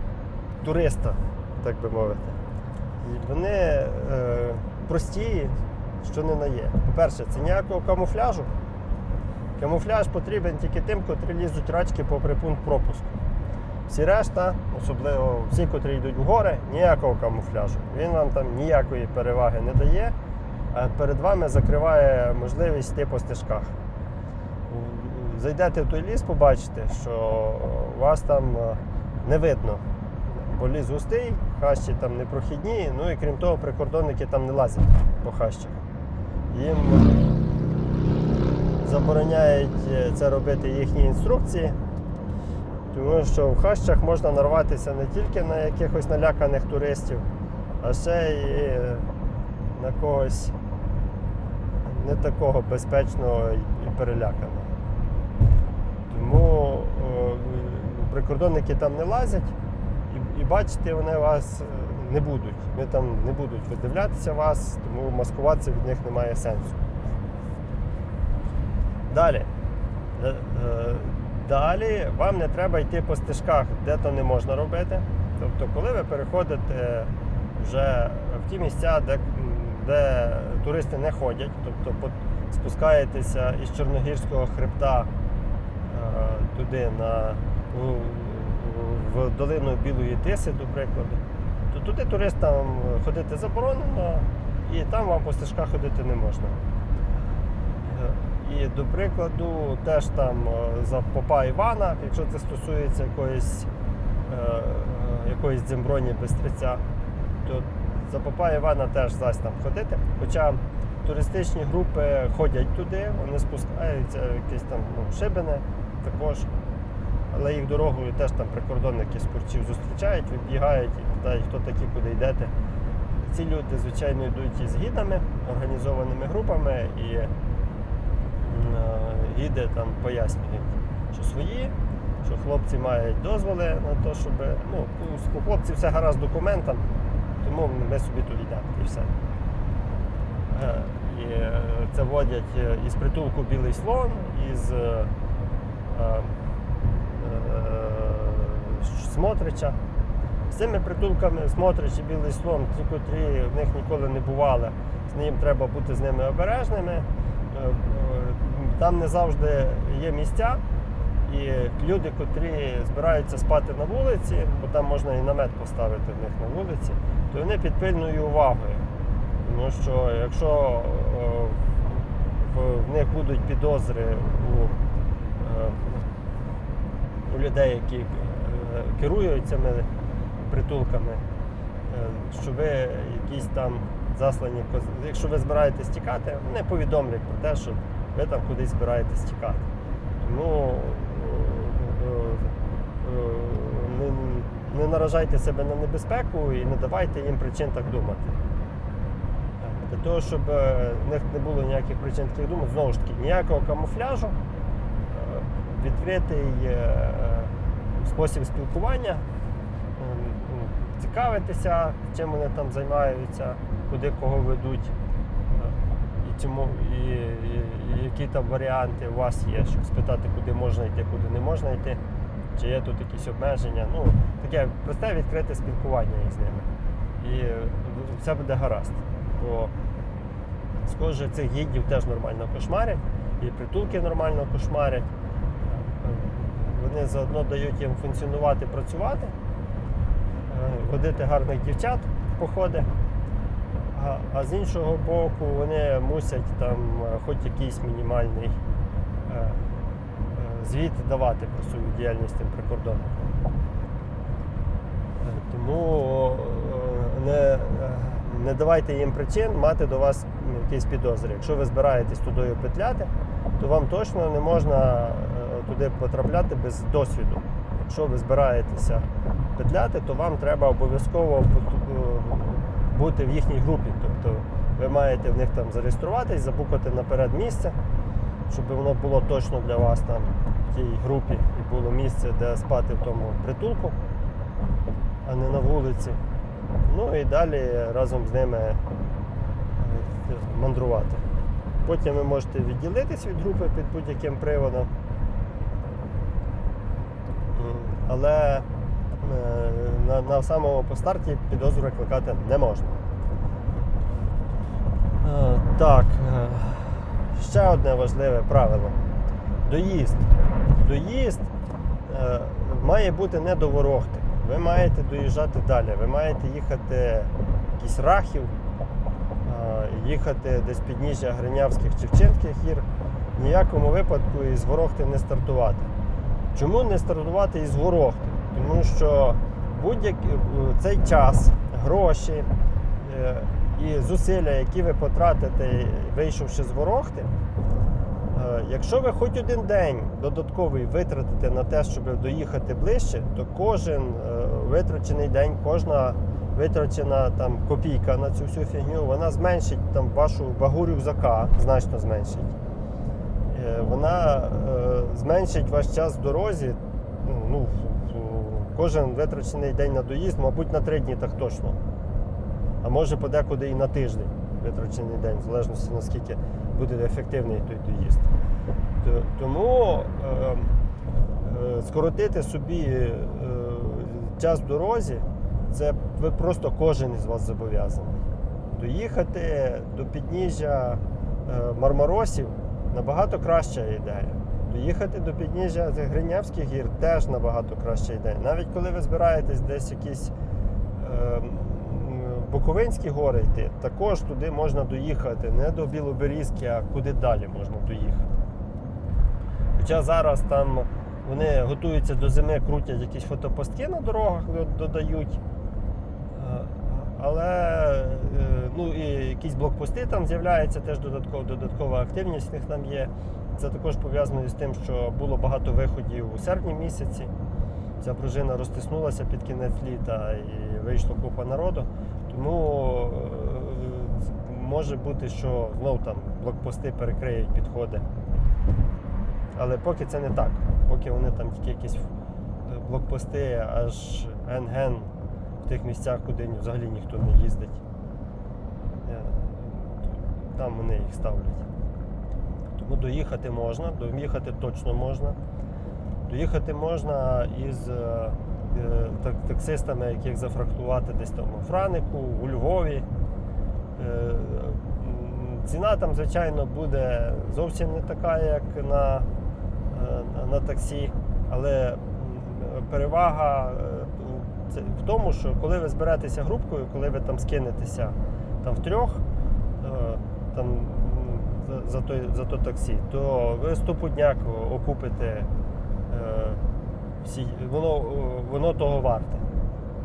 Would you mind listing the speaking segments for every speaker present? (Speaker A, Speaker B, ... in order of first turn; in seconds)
Speaker A: 0.6-2.4, 3.0-8.5, 9.6-13.2, 13.9-20.1, 20.7-23.7, 24.7-35.8, 36.5-37.3, 38.8-41.8, 42.9-47.3, 47.8-49.1, 49.7-50.5, 51.8-54.7, 56.1-59.5, 60.1-66.8, 69.1-69.5, 70.2-85.1, 85.8-96.6, 97.8-103.7, 104.3-106.8, 107.4-116.5, 117.3-122.5, 123.2-127.3, 128.4-136.9, 137.4-139.1, 140.5-145.1, 145.9-146.3, 146.9-149.8, 150.5-160.6, 161.2-168.8, 169.4-174.8, 175.4-176.1, 177.3-179.9, 180.4-181.2, 181.9-189.7, 190.2-198.4, 199.6-204.3, 205.1-209.2, 210.0-214.9, 215.5-222.0, 222.6-226.7, 227.2-229.7, 230.8-235.1, 235.6-239.3, 240.5-242.9, 243.9-248.6, 249.2-249.6, 250.3-253.3, 255.2-277.8, 278.5-283.9, 285.2-286.2, 286.8-288.8, 289.8-291.2, 291.8-294.9, 297.5-298.7, 299.2-303.0, 305.2-309.0, 309.6-311.5, 312.1-318.5, 319.4-325.9, 326.5-332.5, 333.0-337.3, 338.3-352.5, 353.5-361.8, 362.8-368.3, 369.0-370.7, 371.4-390.3, 390.9-398.3, 399.8-405.4, 406.3-417.3, 418.0-428.0, 429.5-432.1, 432.6-435.1, 435.6-437.8, 439.0-441.6, 442.8-445.4, 446.3-453.1, 453.9-459.3, 459.9-469.2, 469.8-475.5, 476.1-476.6, 477.2-479.4